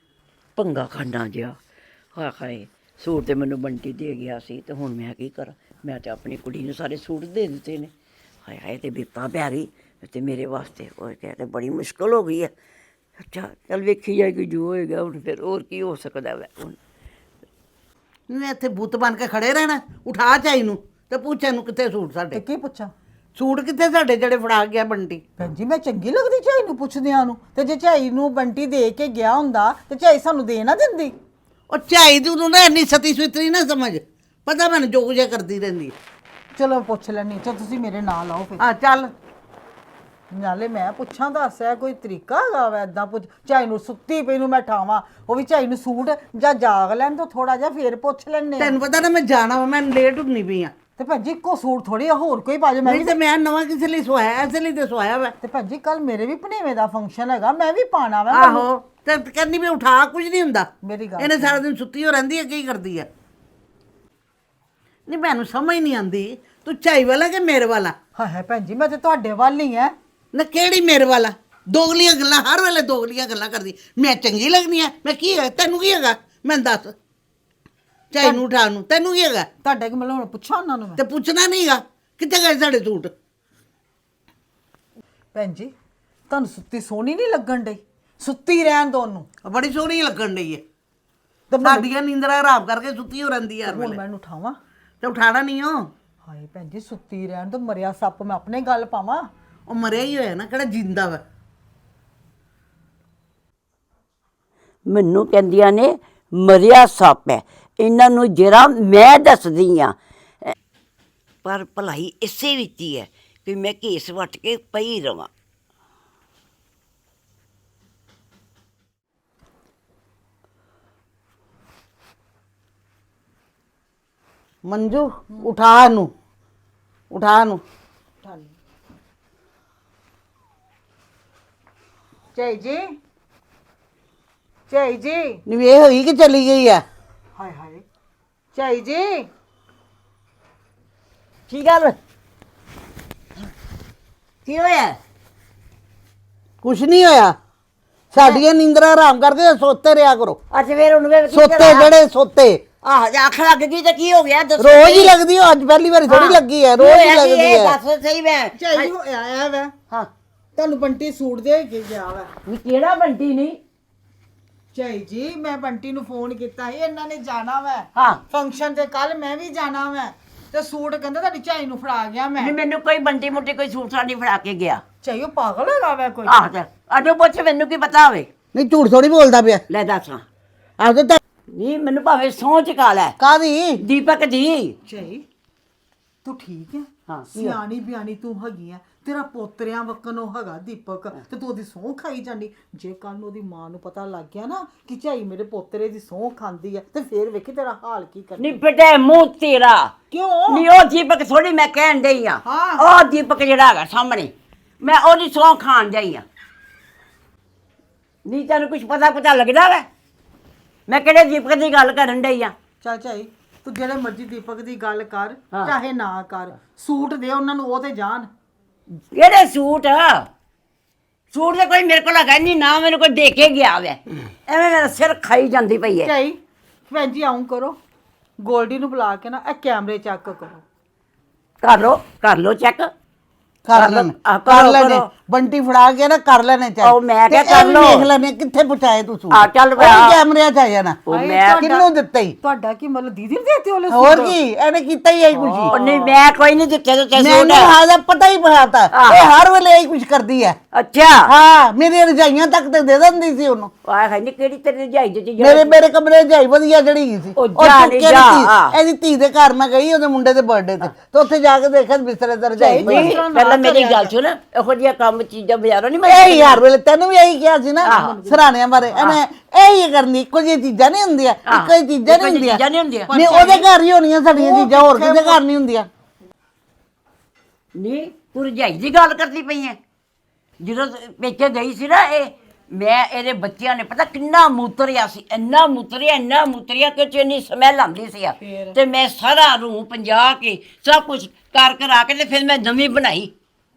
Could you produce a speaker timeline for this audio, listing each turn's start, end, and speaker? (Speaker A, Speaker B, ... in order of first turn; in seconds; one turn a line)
Speaker A: 0.6-1.6
Speaker A: 2.2-7.9
Speaker A: 8.4-12.5
Speaker A: 13.2-16.8
Speaker B: 18.3-22.4
Speaker C: 22.3-22.9
Speaker B: 23.4-25.2
Speaker C: 25.4-31.1
Speaker B: 31.7-36.0
Speaker C: 36.5-38.6
Speaker B: 38.6-39.1
Speaker C: 40.3-48.8
Speaker B: 48.6-50.7
Speaker C: 51.0-53.2
Speaker B: 52.8-55.4
Speaker C: 55.4-58.7
Speaker B: 58.3-63.1
Speaker C: 60.8-61.6
Speaker B: 65.1-68.0
Speaker C: 68.2-69.9
Speaker B: 70.3-77.0
Speaker B: 78.1-79.5
Speaker C: 78.2-78.4
Speaker C: 79.6-81.0
Speaker B: 81.0-83.1
Speaker C: 85.3-85.7
Speaker C: 86.3-89.3
Speaker B: 89.4-90.6
Speaker C: 91.5-91.9
Speaker B: 91.6-94.0
Speaker C: 93.7-94.6
Speaker B: 95.0-95.9
Speaker C: 96.3-99.3
Speaker B: 99.7-101.2
Speaker A: 104.9-110.5
Speaker A: 111.4-115.3
Speaker B: 124.7-126.1
Speaker B: 127.1-127.6
Speaker C: 128.2-128.6
Speaker C: 132.3-132.8
Speaker C: 134.7-135.4
Speaker B: 135.5-136.8
Speaker C: 137.4-137.8
Speaker C: 138.5-139.3
Speaker A: 141.5-142.0
Speaker A: 144.4-145.0
Speaker B: 146.6-147.4
Speaker B: 148.1-150.4
Speaker A: 148.2-148.4
Speaker A: 150.5-151.9
Speaker B: 151.3-152.6
Speaker A: 152.8-155.2
Speaker B: 154.6-157.8
Speaker A: 156.1-158.9
Speaker C: 158.6-159.7
Speaker C: 160.6-162.3
Speaker A: 162.4-163.6
Speaker C: 164.7-172.6
Speaker A: 167.9-168.2
Speaker A: 172.4-174.8
Speaker C: 175.0-176.4
Speaker A: 176.3-178.3
Speaker B: 178.5-179.6
Speaker A: 179.7-180.2
Speaker B: 180.8-181.2
Speaker A: 181.5-183.2
Speaker B: 183.2-183.8
Speaker A: 183.8-184.8
Speaker C: 184.9-185.2
Speaker C: 186.2-198.6
Speaker A: 187.1-187.6
Speaker A: 198.4-199.9
Speaker C: 200.1-200.7
Speaker A: 200.5-206.2
Speaker C: 202.4-202.9
Speaker A: 208.3-209.9
Speaker A: 210.9-212.6
Speaker C: 212.8-218.3
Speaker A: 219.1-220.3
Speaker A: 221.3-226.1
Speaker C: 226.0-226.4
Speaker C: 226.9-227.8
Speaker C: 228.4-230.6
Speaker A: 231.6-232.9
Speaker B: 233.7-241.0
Speaker A: 233.7-235.1
Speaker A: 236.8-238.1
Speaker A: 239.3-240.2
Speaker A: 241.1-241.7
Speaker C: 241.1-241.9
Speaker B: 241.6-242.4
Speaker C: 242.4-244.4
Speaker B: 243.9-245.8
Speaker C: 245.3-246.1
Speaker A: 245.7-247.8
Speaker B: 247.2-250.6
Speaker A: 248.9-249.3
Speaker A: 250.7-251.3
Speaker B: 251.3-253.7
Speaker A: 253.8-255.8
Speaker B: 255.4-263.2
Speaker A: 257.4-258.8
Speaker C: 262.6-264.1
Speaker A: 262.8-266.6
Speaker B: 266.1-275.9
Speaker A: 267.8-268.2
Speaker C: 267.8-268.9
Speaker A: 268.9-269.2
Speaker A: 271.4-273.5
Speaker C: 274.4-275.4
Speaker A: 277.8-279.8
Speaker A: 280.6-293.3
Speaker C: 288.4-288.8